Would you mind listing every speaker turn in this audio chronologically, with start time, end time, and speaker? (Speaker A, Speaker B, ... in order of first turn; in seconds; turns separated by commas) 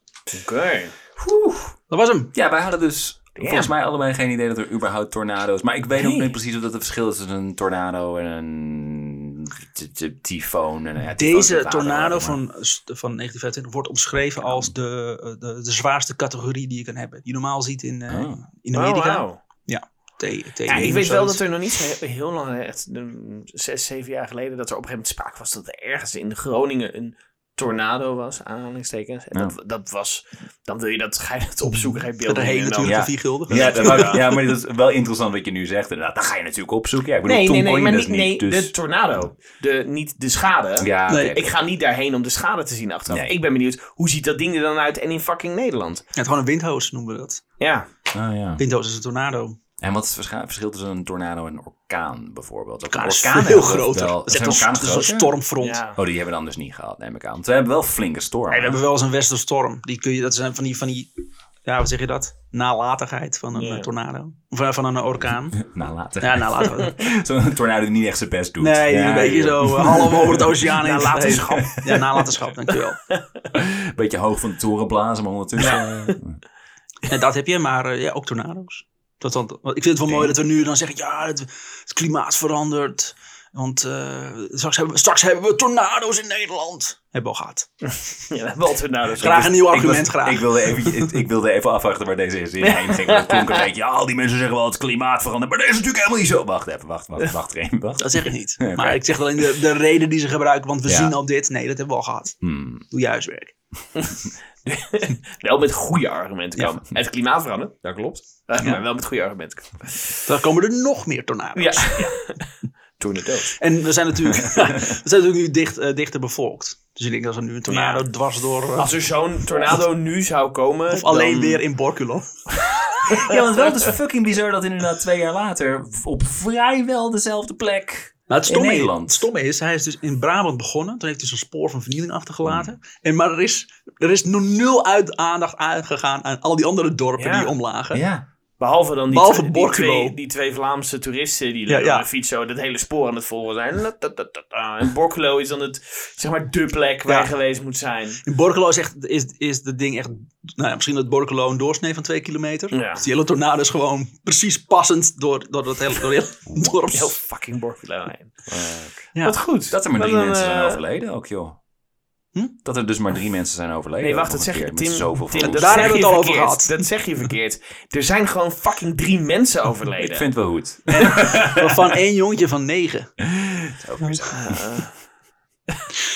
Speaker A: 0.3-0.9, Speaker B: 1.2-1.8, Speaker C: 1.9-2.3, Speaker B: 2.3-12.4, Speaker A: 3.4-3.7, Speaker A: 6.0-6.3, Speaker C: 11.2-21.2, Speaker B: 14.4-14.7, Speaker B: 18.1-18.4, Speaker A: 18.7-19.4, Speaker A: 20.7-34.4, Speaker B: 20.7-21.4, Speaker C: 31.7-34.2, Speaker B: 32.8-38.7, Speaker A: 37.2-46.0, Speaker B: 40.8-41.7, Speaker C: 41.1-41.4, Speaker B: 43.1-43.4, Speaker C: 46.2-47.4, Speaker A: 47.6-47.9, Speaker B: 48.1-48.6, Speaker C: 48.6-49.6, Speaker B: 49.8-55.4, Speaker C: 52.9-55.8, Speaker A: 55.6-56.0, Speaker B: 55.9-58.8, Speaker C: 58.5-61.1, Speaker C: 61.6-65.6, Speaker A: 63.5-63.9, Speaker B: 65.6-72.1, Speaker C: 66.2-67.0, Speaker C: 68.6-73.0, Speaker A: 70.7-71.9, Speaker B: 73.5-76.4, Speaker A: 75.6-76.2, Speaker C: 77.1-87.7, Speaker B: 80.1-80.3, Speaker A: 88.2-89.5, Speaker C: 89.2-91.1, Speaker B: 89.2-99.4, Speaker A: 92.6-93.7, Speaker C: 98.0-103.5, Speaker B: 100.9-101.1, Speaker B: 102.4-102.8, Speaker A: 104.0-110.2, Speaker C: 110.2-112.1, Speaker A: 111.6-112.4, Speaker A: 113.0-113.5, Speaker C: 113.6-118.9, Speaker B: 114.5-114.8, Speaker A: 117.7-118.0, Speaker A: 118.8-121.6, Speaker C: 120.9-122.3, Speaker A: 123.0-123.4, Speaker B: 123.1-129.3, Speaker C: 128.3-138.0, Speaker B: 132.4-132.7, Speaker A: 137.2-137.5, Speaker B: 137.9-138.3, Speaker A: 138.6-148.2, Speaker C: 139.1-140.2, Speaker C: 141.7-142.1, Speaker C: 148.2-157.2, Speaker A: 152.7-153.0, Speaker A: 156.9-158.4, Speaker B: 158.5-159.1, Speaker A: 159.2-160.8, Speaker B: 159.7-161.6, Speaker B: 162.6-166.1, Speaker A: 164.0-170.3, Speaker C: 165.4-166.8, Speaker B: 170.0-171.9, Speaker C: 171.5-173.1, Speaker B: 173.2-174.8, Speaker A: 174.3-174.9